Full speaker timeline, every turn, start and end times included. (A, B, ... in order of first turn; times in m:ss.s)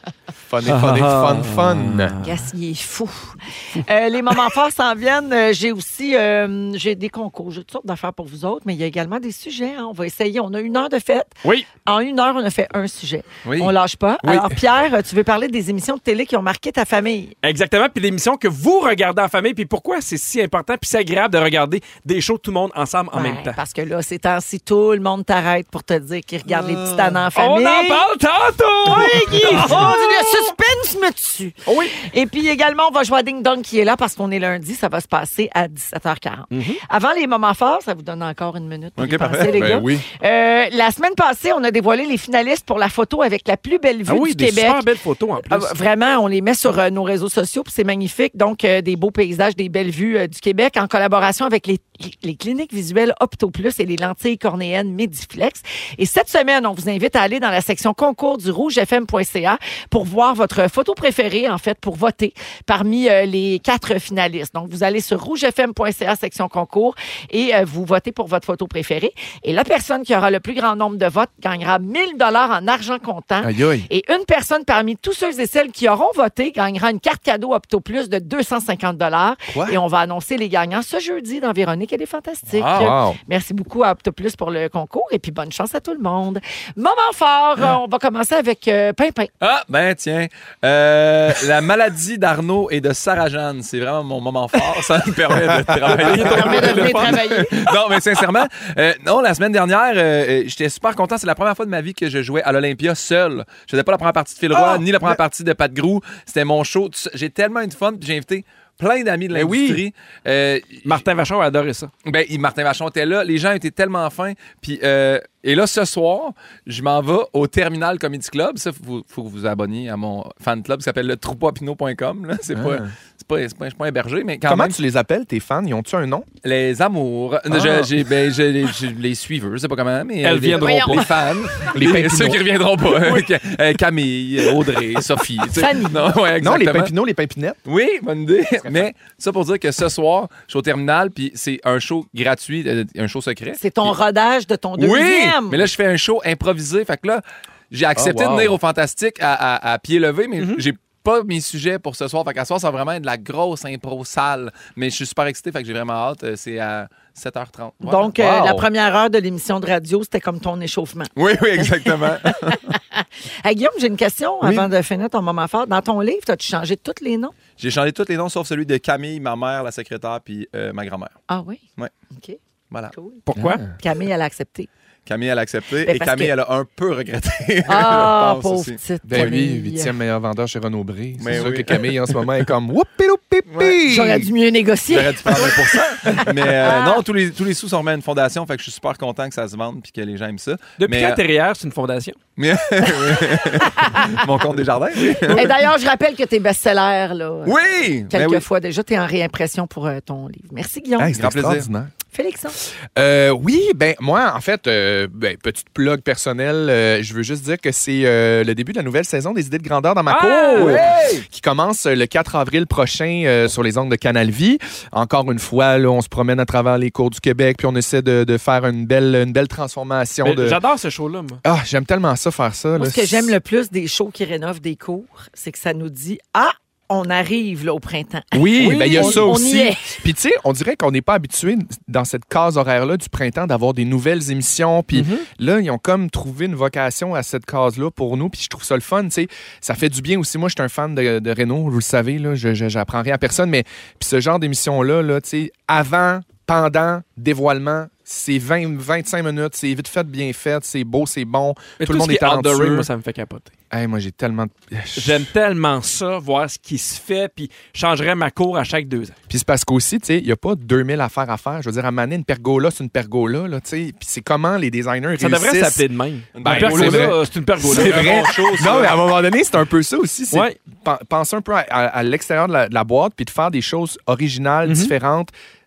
0:00.5-0:02.2 A
0:00.7-0:02.5 B
0:02.2-0:17.3 C
0:13.4-0:13.7 D
0:14.2-0:14.5 A
0:17.4-0:23.6 B
0:23.1-0:28.0 C
0:26.8-0:30.2 B
0:28.9-0:44.8 C
0:31.7-0:32.0 B
0:36.5-0:36.8 B
0:39.0-0:39.9 D
0:39.5-0:40.0 A
0:44.1-0:45.7 B
0:45.4-1:29.3 C
1:13.4-1:13.9 A
1:19.5-1:19.8 A
1:22.5-1:22.9 D
1:22.8-1:23.2 A
1:29.4-1:51.0 D
1:35.9-1:37.2 B
1:36.0-1:37.6 C
1:44.7-1:45.2 A
1:49.3-1:49.8 A
1:50.8-1:51.9 B
1:52.0-2:04.8 D
2:02.5-2:02.9 A
2:04.4-2:06.3 A
2:06.4-2:16.9 D
2:07.5-2:07.9 A
2:10.2-2:11.1 B
2:10.6-2:11.1 C
2:11.7-2:12.4 A
2:15.5-2:16.1 C
2:16.4-2:17.6 A
2:17.7-2:24.0 D
2:23.6-2:25.7 C
2:24.8-2:38.7 D
2:28.0-2:28.6 A
2:30.4-2:30.6 B
2:37.8-2:47.4 C
2:41.2-2:42.7 D
2:44.4-2:44.7 D
2:47.6-2:51.2 D
2:51.3-2:51.6 C
2:52.1-2:52.4 C
2:52.9-2:54.7 C
2:53.3-2:53.6 B
2:53.4-2:53.7 A
2:55.1-2:58.8 D
2:55.8-2:56.3 C
2:57.7-2:59.9 C
2:59.0-3:04.3 A
3:01.2-3:02.3 D
3:03.5-3:03.8 D
3:03.8-3:07.0 C
3:04.9-3:11.2 D
3:10.8-3:12.2 B
3:12.4-3:15.5 D
3:13.1-3:14.2 C
3:15.3-3:17.6 C
3:17.4-3:18.4 D
3:18.1-3:21.2 C
3:21.0-3:21.9 A
3:21.2-3:21.7 D
3:22.1-3:22.6 C
3:23.0-3:40.6 A
3:30.1-3:30.9 B
3:30.6-3:31.2 D
3:40.2-3:41.4 B
3:41.4-3:43.3 A
3:42.8-3:50.0 C
3:48.3-4:12.9 A
3:48.7-3:49.3 B
3:54.9-3:55.3 B
4:11.8-4:13.5 B
4:13.7-4:15.3 A
4:15.0-4:19.2 B
4:19.3-4:25.8 A
4:25.2-4:28.4 B
4:26.4-4:29.0 D
4:26.4-4:35.3 A
4:34.7-4:34.9 B